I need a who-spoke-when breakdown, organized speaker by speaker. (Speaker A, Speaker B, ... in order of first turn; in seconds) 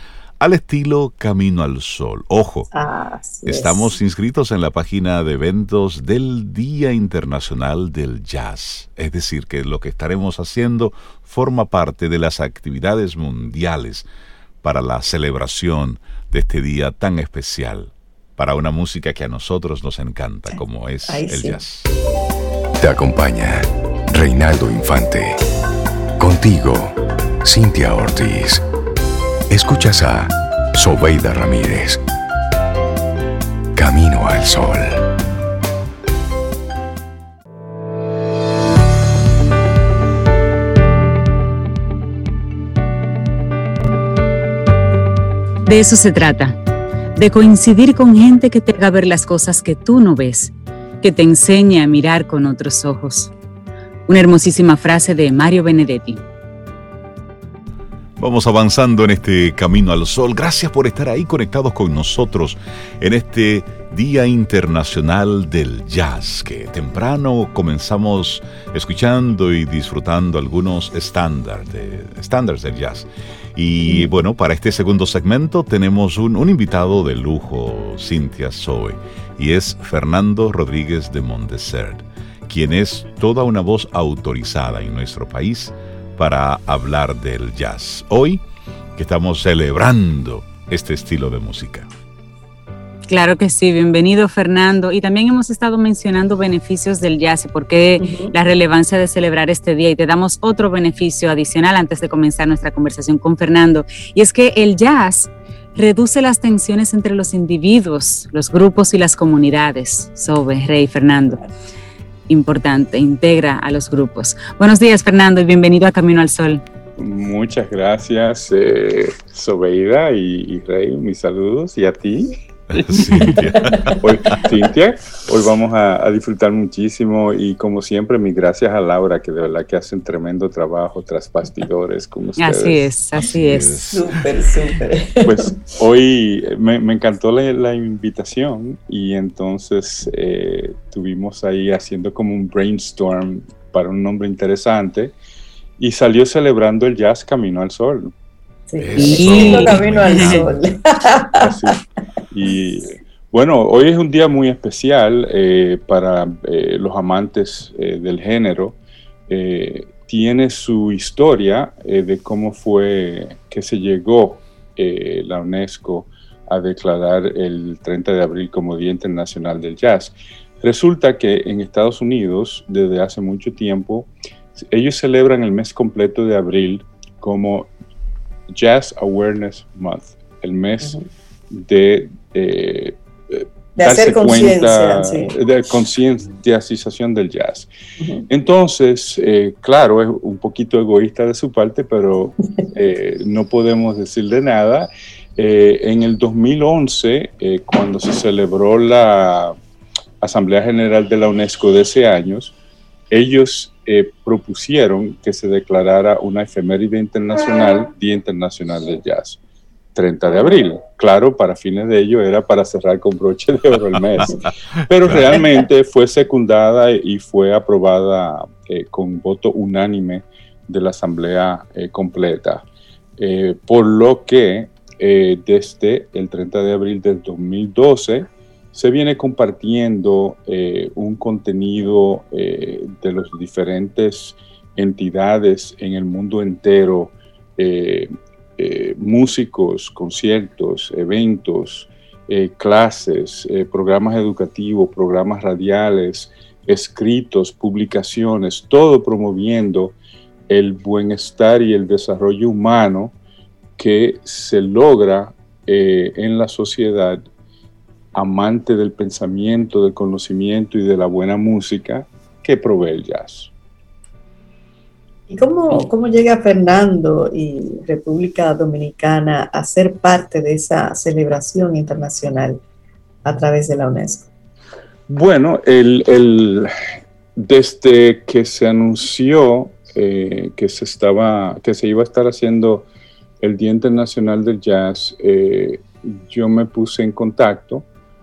Speaker A: 0.4-2.7, 3.5-14.1, 14.6-21.9, 58.2-88.4, 89.0-91.9, 122.7-123.9, 133.3-134.1, 148.8-150.5, 215.0-215.3
Speaker B: 2.7-4.0, 20.5-21.6, 98.0-98.3, 123.7-124.3, 133.9-135.6, 148.7-151.7, 183.8-185.3, 188.0-188.2, 265.3-272.6, 273.2-274.3
Speaker C: 22.8-25.4, 26.2-28.6, 29.5-32.0, 33.7-35.1
Speaker D: 45.6-46.6, 47.1-53.3, 54.1-56.2, 93.1-111.5, 112.3-116.6, 132.4-134.0, 148.9-150.4
Speaker E: 117.0-132.9, 135.2-145.1, 145.8-148.1, 151.4-151.8, 152.3-158.8, 159.3-177.7, 178.5-187.7, 188.3-199.5, 200.2-202.5, 203.1-209.4, 209.9-222.6, 223.2-249.9, 250.5-253.1, 253.8-257.2, 258.1-263.5, 275.1-276.7, 277.4-282.9, 283.4-287.9